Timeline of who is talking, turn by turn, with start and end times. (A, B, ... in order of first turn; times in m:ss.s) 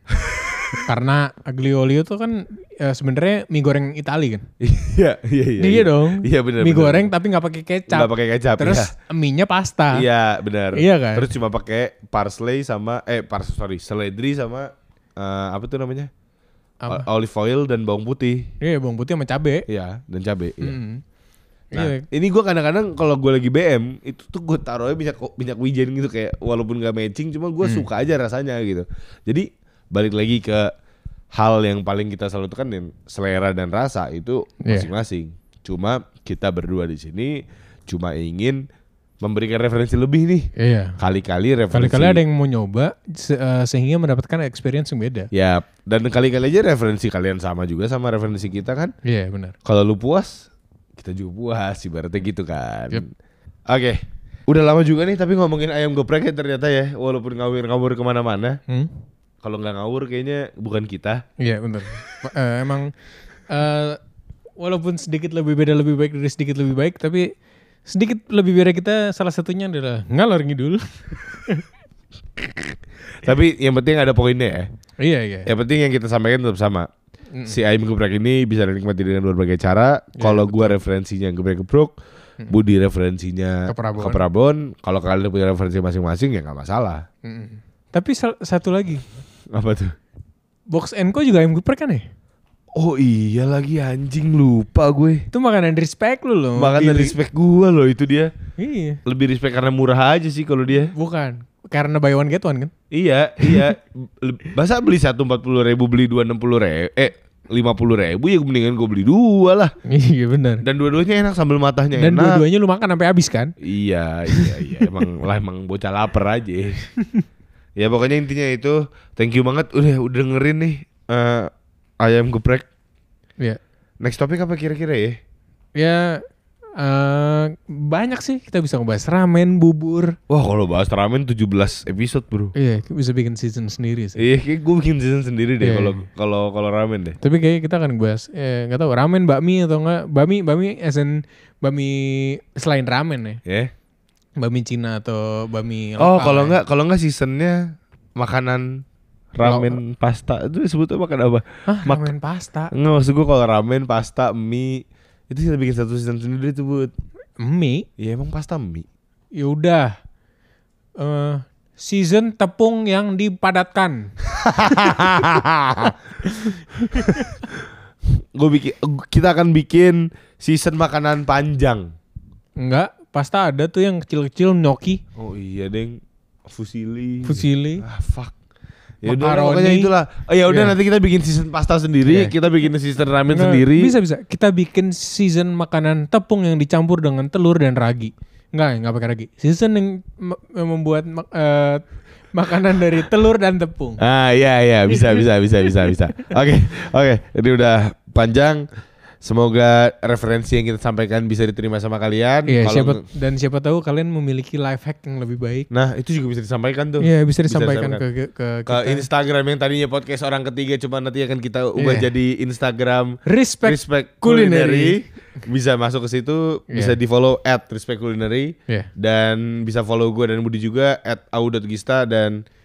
0:00.1-0:00.8 A
0:00.8-0:04.5 B
0:04.6-0:07.1 A
0:05.6-0:10.0 B
0:07.9-0:08.9 A
0:09.9-0:16.1 A
0:10.7-0:11.3 B
0:16.9-0:18.5 A
0:18.6-0:19.6 B
0:19.7-0:20.8 A
0:20.6-0:21.0 B
0:21.7-0:22.0 B
0:21.7-0:30.7 A
0:27.6-0:27.9 B
0:31.3-0:38.6 A
0:34.6-0:34.9 B
0:39.2-0:42.2 A
0:40.6-0:41.0 B
0:41.7-0:45.3 B
0:45.3-0:48.9 A
0:49.0-0:49.5 B
0:49.6-0:53.1 A
0:53.7-0:58.6 A
0:58.7-0:59.0 B
0:59.4-1:01.2 A
1:01.4-1:02.9 B
1:03.5-1:04.0 B
1:04.6-1:07.3 B
1:07.8-1:11.7 B
1:12.4-1:14.7 A
1:15.0-1:15.5 B
1:15.4-1:16.9 A
1:17.3-1:17.6 B
1:17.4-1:21.9 A
1:20.2-1:20.8 B
1:22.5-1:27.0 A
1:23.7-1:24.2 B
1:27.2-1:29.2 B
1:29.5-1:29.9 A
1:30.7-1:32.1 B
1:32.7-1:35.3 A
1:35.3-1:37.2 B
1:36.6-1:38.3 A
1:38.6-1:39.0 B
1:39.0-1:40.9 A
1:40.9-1:42.7 B
1:42.9-1:49.7 A
1:43.4-1:43.7 B
1:49.9-1:50.6 B
1:50.6-1:52.4 A
1:52.0-1:53.5 B
1:53.6-1:56.9 A
1:54.3-1:54.9 B
1:57.0-1:57.2 B
1:57.8-2:01.5 A
2:02.0-2:02.6 A
2:04.0-2:05.2 A
2:05.8-2:06.2 B
2:06.8-2:10.2 B
2:10.3-2:12.5 A
2:12.5-2:14.2 B
2:14.2-2:17.2 A
2:15.6-2:16.0 B
2:17.2-2:23.4 B
2:23.4-2:23.7 A
2:24.4-2:26.6 B
2:26.0-2:32.1 A
2:29.4-2:29.8 B
2:31.7-2:32.7 B
2:32.7-2:36.9 A
2:37.4-2:37.9 B
2:38.0-2:38.8 A
2:39.3-2:40.0 B
2:41.0-2:44.1 B
2:44.3-2:46.0 A
2:46.2-2:47.4 B
2:46.7-2:51.9 A
2:52.6-2:55.0 B
2:55.1-2:58.3 A
2:57.2-2:57.8 B
2:59.0-3:03.9 A
2:59.0-2:59.9 B
3:00.5-3:00.8 B
3:02.0-3:02.4 B
3:03.3-3:14.0 B
3:14.0-3:18.6 A
3:14.9-3:16.2 B
3:19.2-3:23.0 A
3:22.5-3:25.7 B
3:25.7-3:28.0 A
3:27.0-3:29.0 B
3:28.7-3:42.4 A
3:31.8-3:32.1 B
3:33.2-3:35.0 B